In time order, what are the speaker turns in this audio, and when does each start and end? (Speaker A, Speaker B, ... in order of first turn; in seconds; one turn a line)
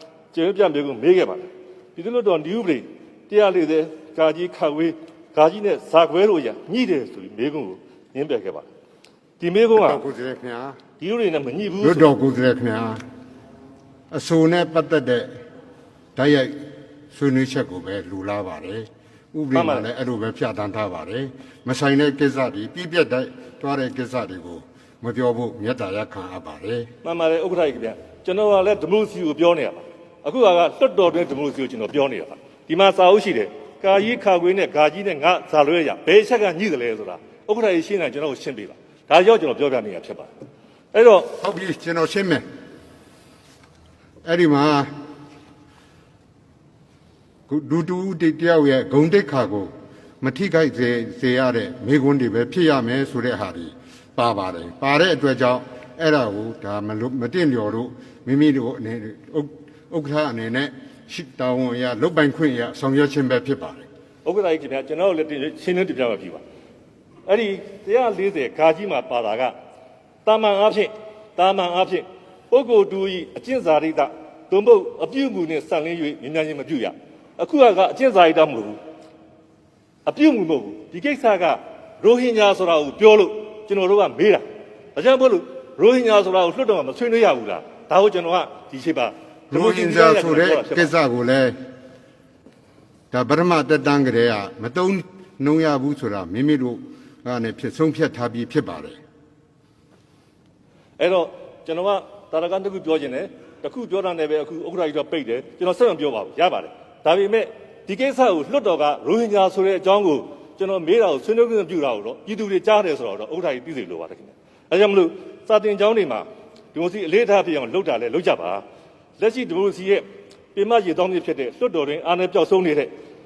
Speaker A: 0.3-8.7
Speaker A: 9.4-10.0
Speaker B: 9.8-10.8
Speaker A: 11.0-12.1
Speaker B: 11.8-13.0
Speaker B: 14.1-15.3
Speaker B: 16.1-16.6
Speaker B: 17.1-26.9
Speaker A: 19.5-19.9
Speaker A: 27.0-40.3
Speaker A: 40.9-41.3
Speaker B: 41.4-42.4
Speaker B: 44.2-44.9
Speaker B: 47.5-63.9
Speaker A: 64.2-66.4
Speaker A: 67.2-69.5
Speaker A: 70.2-78.8
Speaker A: 80.0-84.4
Speaker A: 84.9-90.9
Speaker B: 89.5-91.5
Speaker B: 93.1-99.0
Speaker A: 101.0-118.6
Speaker A: 119.2-122.9